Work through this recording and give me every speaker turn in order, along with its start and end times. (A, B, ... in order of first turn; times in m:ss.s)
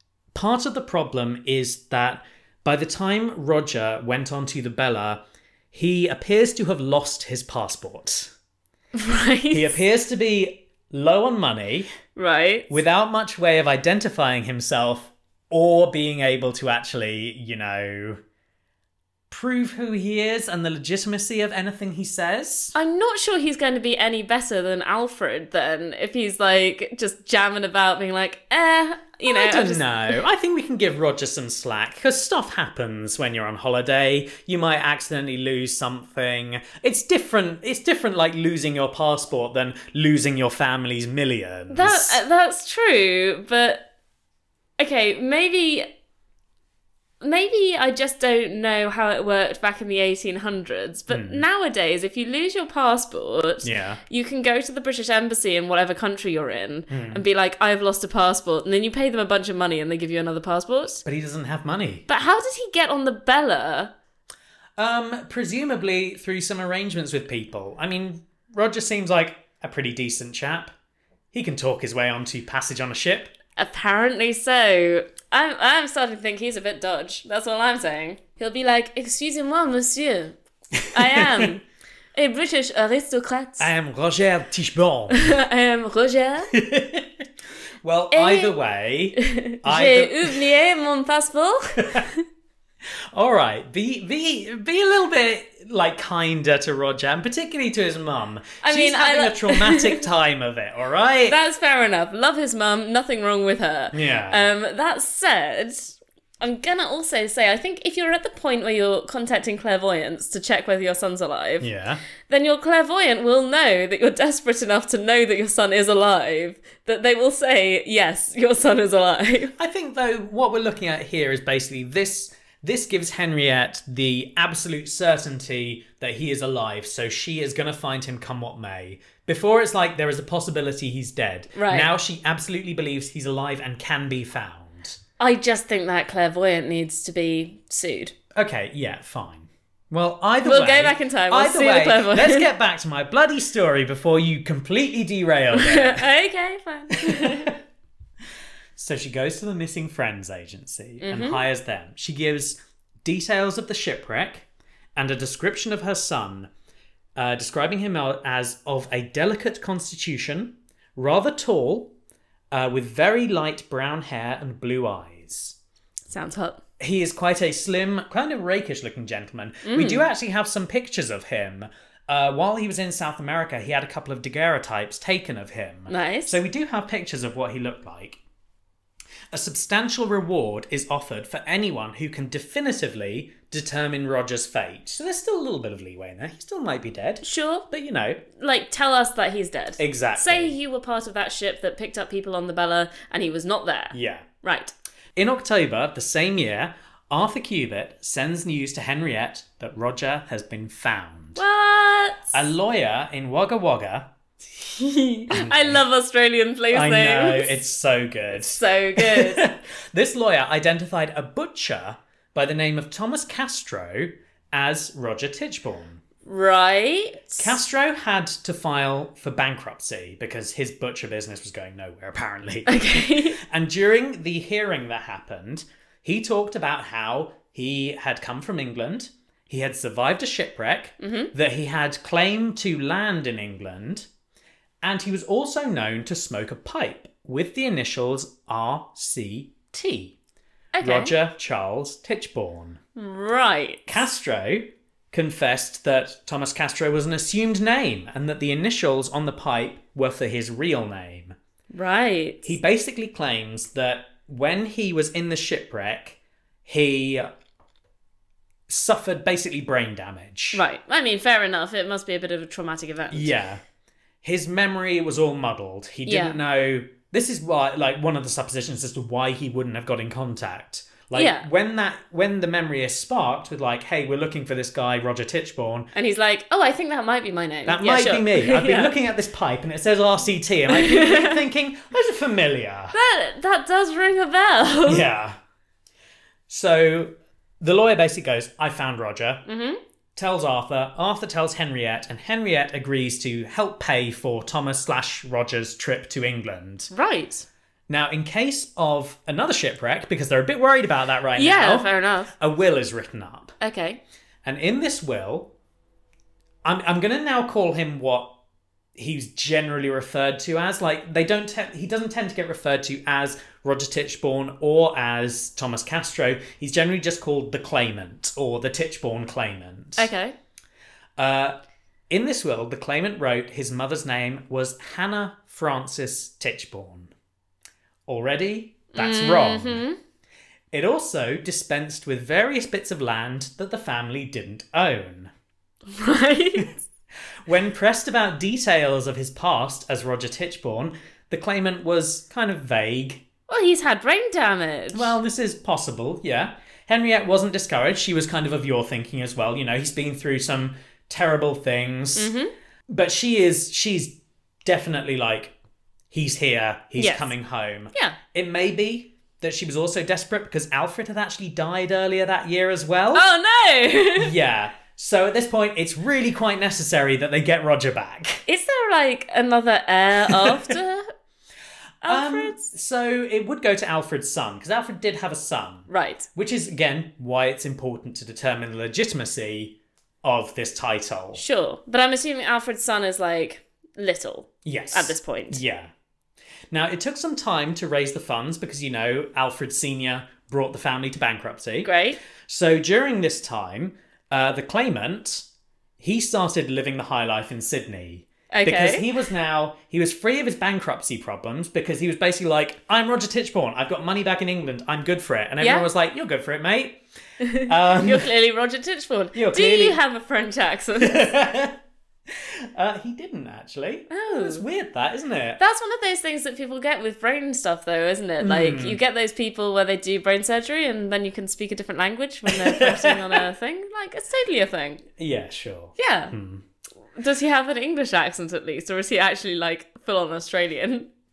0:00.3-0:08.3 A
0:08.9-0:09.8 B
0:09.5-0:11.9 A
0:12.2-0:12.7 B
0:12.7-0:18.2 A
0:19.3-0:22.7 A
0:22.8-0:30.2 B
0:29.3-0:42.2 A
0:41.7-0:43.8 B
0:44.8-0:45.9 B
0:47.2-1:01.0 B
0:51.1-0:51.4 A
0:53.6-0:54.0 A
0:56.9-0:57.2 A
1:01.0-1:02.1 A
1:02.1-1:03.9 B
1:04.8-1:10.7 A
1:11.3-1:13.4 A
1:13.6-1:20.4 B
1:20.8-1:21.5 A
1:20.9-1:21.6 B
1:22.1-1:23.7 B
1:23.6-1:25.3 A
1:25.1-1:26.5 B
1:26.5-1:27.1 A
1:27.8-1:30.5 A
1:28.1-1:28.6 B
1:29.2-1:32.2 B
1:31.8-1:32.1 A
1:33.1-1:41.4 A
1:38.6-1:40.0 B
1:41.3-1:51.7 B
1:43.9-1:44.5 A
1:51.6-1:52.0 A
1:52.3-1:59.5 B
1:59.6-2:15.0 A
2:11.6-2:11.9 B
2:15.2-2:18.2 B
2:18.4-2:26.0 A
2:20.4-2:22.5 B
2:25.5-2:27.6 B
2:26.9-2:27.6 A
2:28.8-2:36.5 A
2:31.0-2:31.4 B
2:37.2-2:41.9 A
2:42.5-2:45.6 A
2:46.1-2:46.6 B
2:46.8-2:58.2 A
2:49.6-2:50.0 B
2:55.9-2:56.4 B
2:59.3-3:08.2 A
3:07.2-3:07.7 B
3:08.3-3:14.7 B
3:09.8-3:10.6 A
3:13.9-3:14.3 A
3:15.2-3:21.4 A
3:21.4-3:22.5 B
3:22.3-3:24.1 A
3:24.6-3:27.6 B
3:25.3-3:25.8 A
3:26.7-3:36.0 A
3:28.4-3:29.5 B
3:36.2-3:37.6 B
3:37.4-3:54.1 A
3:42.7-3:43.4 B
3:51.0-3:51.3 B
3:54.8-4:00.2 A
4:00.8-4:01.1 B
4:00.8-4:02.8 A
4:03.0-4:04.0 B
4:03.9-4:11.4 A
4:11.7-4:12.6 B
4:12.4-4:17.3 A
4:18.7-4:20.6 A
4:20.5-4:23.4 B
4:23.1-4:23.6 A
4:24.2-4:35.9 A
4:26.1-4:26.4 B
4:31.1-4:31.5 B
4:35.9-4:39.0 B
4:37.7-4:43.0 A
4:40.7-4:41.4 B
4:42.9-4:45.0 B
4:44.8-4:45.4 A
4:46.5-4:49.4 A
4:49.5-4:49.8 B
4:50.2-4:56.9 A
4:56.9-4:57.5 B
4:57.9-5:03.6 A
5:01.4-5:02.3 B
5:03.6-5:04.0 B
5:04.4-5:05.5 A
5:06.6-5:08.3 A
5:09.0-5:20.1 A
5:20.0-5:20.4 B
5:21.2-5:21.6 A
5:22.1-5:27.1 A
5:28.1-5:29.8 A
5:29.0-5:30.0 B
5:30.7-5:35.3 A
5:35.9-5:36.8 B
5:37.4-5:43.2 A
5:43.5-5:45.2 B
5:44.9-5:52.3 A
5:52.2-5:52.5 B
5:52.9-5:55.5 A
5:56.1-6:03.3 A
5:57.0-5:57.3 B
6:03.1-6:04.3 B
6:04.2-6:08.4 A
6:08.5-6:11.1 B
6:10.3-6:10.8 A
6:12.0-6:12.6 B
6:12.0-6:21.4 A
6:15.9-6:16.3 B
6:21.4-6:25.6 B
6:24.6-6:25.9 A
6:26.7-6:35.5 A
6:31.8-6:32.2 B
6:36.0-6:47.0 A
6:38.5-6:39.1 B
6:45.6-6:45.9 B
6:47.4-6:51.3 B
6:47.6-6:48.3 A
6:49.4-6:50.0 A
6:51.0-6:51.8 A
6:52.3-6:55.6 A
6:54.1-6:54.6 B
6:55.6-7:05.0 B
6:58.4-6:59.0 A
7:02.5-7:03.4 A
7:05.2-7:06.6 A
7:06.0-7:06.3 B
7:07.2-7:11.1 B